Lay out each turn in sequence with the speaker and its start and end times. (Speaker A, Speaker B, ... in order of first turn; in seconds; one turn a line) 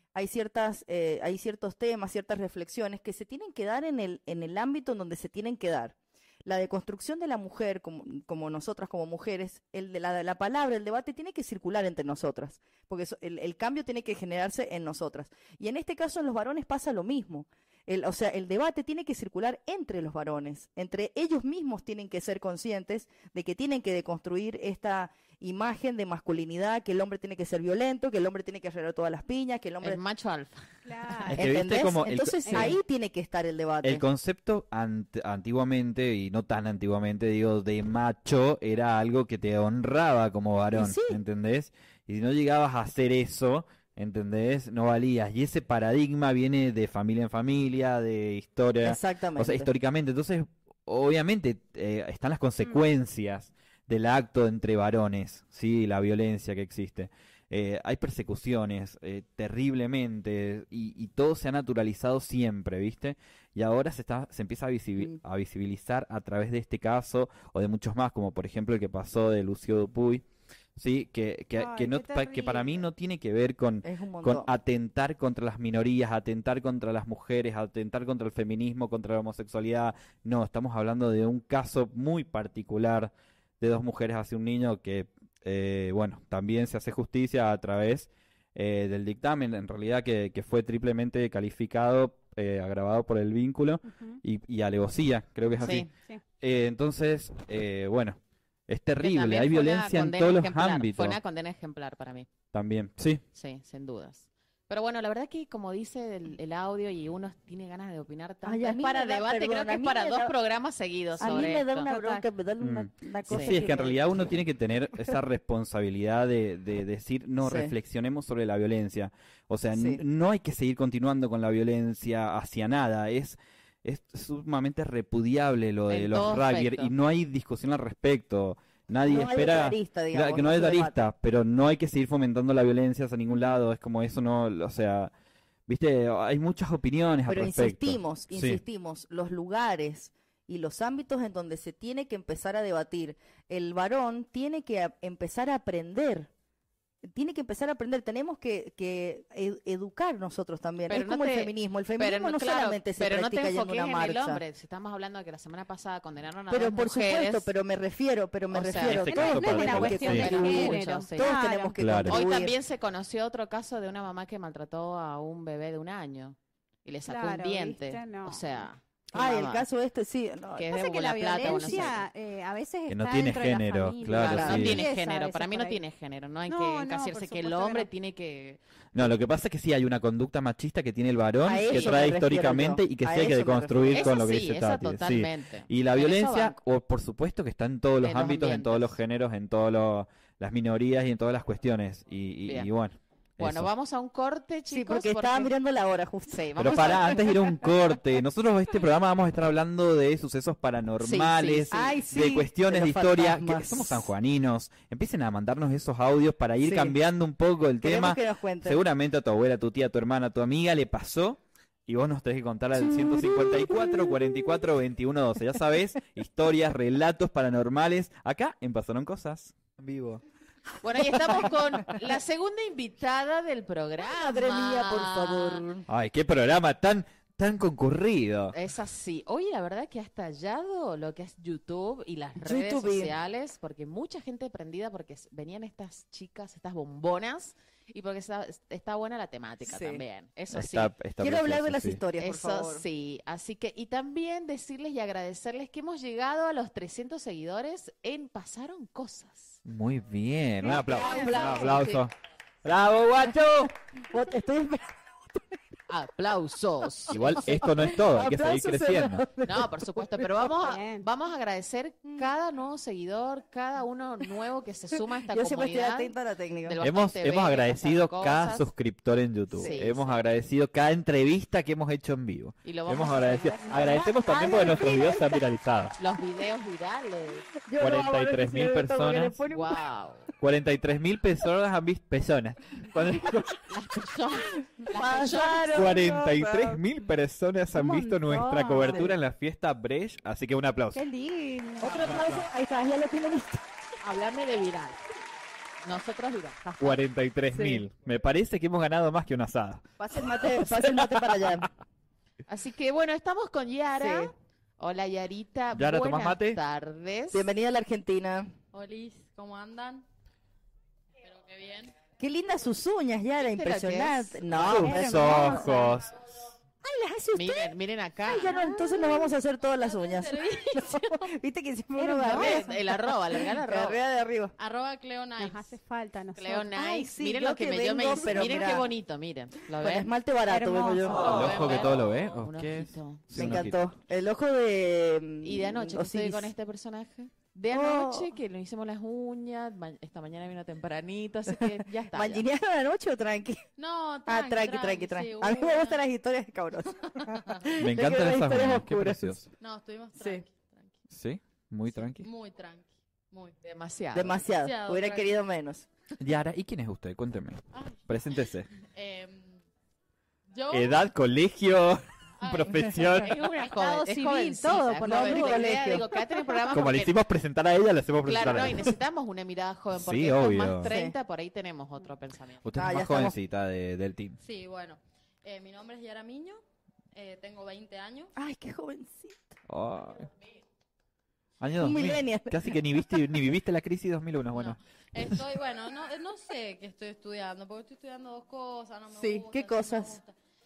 Speaker A: 0.1-30.0
Speaker B: 29.8-30.6
Speaker C: 30.9-31.4
Speaker D: 31.3-32.7
Speaker A: 31.4-34.0
Speaker C: 32.5-32.7
Speaker D: 33.8-70.2
Speaker A: 40.7-41.2
Speaker A: 48.8-49.7
Speaker D: 70.8-95.9
Speaker C: 71.6-72.8
Speaker A: 73.8-74.5
Speaker C: 93.9-94.2
Speaker B: 95.6-95.9
Speaker D: 96.4-101.2
Speaker B: 99.0-102.3
Speaker D: 102.5-103.2
Speaker B: 103.3-111.9
Speaker A: 108.4-110.3
Speaker A: 111.2-114.3
Speaker C: 111.9-112.2
Speaker D: 112.6-135.1
Speaker B: 113.3-113.9
Speaker A: 117.4-117.7
Speaker A: 119.8-120.0
Speaker B: 125.9-126.9
Speaker A: 129.1-131.0
Speaker D: 135.7-138.6
Speaker A: 137.3-146.3
Speaker A: 147.0-154.4
Speaker B: 150.9-157.5
Speaker A: 156.5-162.6
Speaker B: 158.5-159.1
Speaker D: 158.8-160.6
Speaker C: 159.1-161.8
Speaker B: 159.8-161.3
Speaker D: 161.8-162.2
Speaker B: 162.1-169.7
Speaker C: 167.1-168.6
Speaker A: 169.1-170.7
Speaker B: 170.6-172.1
Speaker C: 170.7-175.8
Speaker A: 171.4-171.9
Speaker D: 172.9-174.8
Speaker B: 174.2-178.6
Speaker A: 174.2-174.6
Speaker C: 176.5-177.9
Speaker D: 178.9-193.7
Speaker A: 181.4-184.2
Speaker B: 181.7-182.0
Speaker B: 183.9-186.6
Speaker B: 188.0-189.0
Speaker B: 193.4-195.5
Speaker A: 194.7-197.4
Speaker B: 196.3-197.4
Speaker D: 196.6-220.2
Speaker B: 201.0-201.7
Speaker A: 201.7-204.1
Speaker A: 206.6-207.0
Speaker A: 207.8-208.8
Speaker A: 212.8-214.2
Speaker B: 220.8-225.6
Speaker A: 224.0-225.8
Speaker D: 225.9-228.6
Speaker B: 228.5-240.9
Speaker A: 232.4-233.1
Speaker A: 239.6-240.0
Speaker D: 240.5-242.0
Speaker A: 241.2-242.8
Speaker B: 242.2-249.6
Speaker D: 249.7-252.1
Speaker A: 250.7-251.8
Speaker B: 250.7-252.0
Speaker D: 252.7-253.7
Speaker A: 254.1-255.6
Speaker B: 255.9-257.6
Speaker D: 257.1-259.2
Speaker A: 257.1-260.5
Speaker B: 259.4-268.7
Speaker C: 260.6-261.1
Speaker A: 265.3-266.8
Speaker D: 266.8-275.9
Speaker A: 269.5-269.8
Speaker B: 269.5-270.2
Speaker B: 272.6-274.1
Speaker A: 273.7-275.4
Speaker B: 276.0-277.5
Speaker A: 277.6-279.8
Speaker D: 277.8-279.4
Speaker B: 279.5-280.3
Speaker D: 280.4-283.7
Speaker B: 283.7-286.1
Speaker A: 284.9-286.8
Speaker D: 285.7-291.0
Speaker C: 287.8-289.1
Speaker C: 290.9-292.0
Speaker A: 291.8-293.6
Speaker B: 291.9-292.3
Speaker D: 292.1-292.4
Speaker B: 294.0-295.0
Speaker B: 295.8-297.0
Speaker D: 296.8-299.9
Speaker A: 297.5-297.8
Speaker A: 300.0-301.7
Speaker D: 300.4-301.2
Speaker B: 302.5-307.5
Speaker A: 304.0-304.3
Speaker D: 305.7-306.6
Speaker A: 307.3-308.5
Speaker E: 308.7-310.1
Speaker E: 311.2-311.9
Speaker A: 312.2-315.6
Speaker B: 313.4-314.9
Speaker D: 314.5-316.1
Speaker C: 314.8-315.9
Speaker A: 316.8-324.5
Speaker B: 317.3-318.5
Speaker C: 318.5-318.9
Speaker E: 318.6-319.2
Speaker E: 319.8-321.3
Speaker C: 322.0-322.6
Speaker B: 322.3-324.0
Speaker E: 324.6-325.8
Speaker C: 325.4-327.0
Speaker B: 326.4-330.1
Speaker A: 326.8-328.9
Speaker A: 329.8-331.5
Speaker C: 330.5-331.2
Speaker B: 331.1-333.6
Speaker D: 331.2-333.8
Speaker A: 333.4-336.5
Speaker B: 335.4-342.4
Speaker A: 337.7-338.3
Speaker A: 341.5-343.6
Speaker E: 343.8-346.0
Speaker A: 344.3-349.4
Speaker E: 347.1-347.7
Speaker D: 347.8-349.5
Speaker E: 349.6-351.0
Speaker A: 350.2-350.4
Speaker D: 351.1-352.3
Speaker E: 351.9-353.6
Speaker B: 353.6-354.4
Speaker A: 354.1-355.9
Speaker E: 354.6-355.4
Speaker D: 356.2-358.7
Speaker E: 357.7-358.1
Speaker E: 358.8-359.6
Speaker E: 360.5-361.1
Speaker D: 360.7-363.3
Speaker E: 362.4-363.2
Speaker B: 363.2-367.2
Speaker C: 363.8-365.7
Speaker A: 365.0-366.1
Speaker D: 366.7-368.9
Speaker B: 368.2-372.6
Speaker D: 369.9-370.9
Speaker A: 370.9-371.2
Speaker D: 372.6-374.4
Speaker A: 372.8-373.4
Speaker E: 374.4-376.6
Speaker E: 377.1-378.3
Speaker A: 378.4-379.6
Speaker D: 379.7-380.3
Speaker D: 381.6-385.4
Speaker A: 381.8-382.8
Speaker E: 384.5-390.3
Speaker A: 389.2-390.2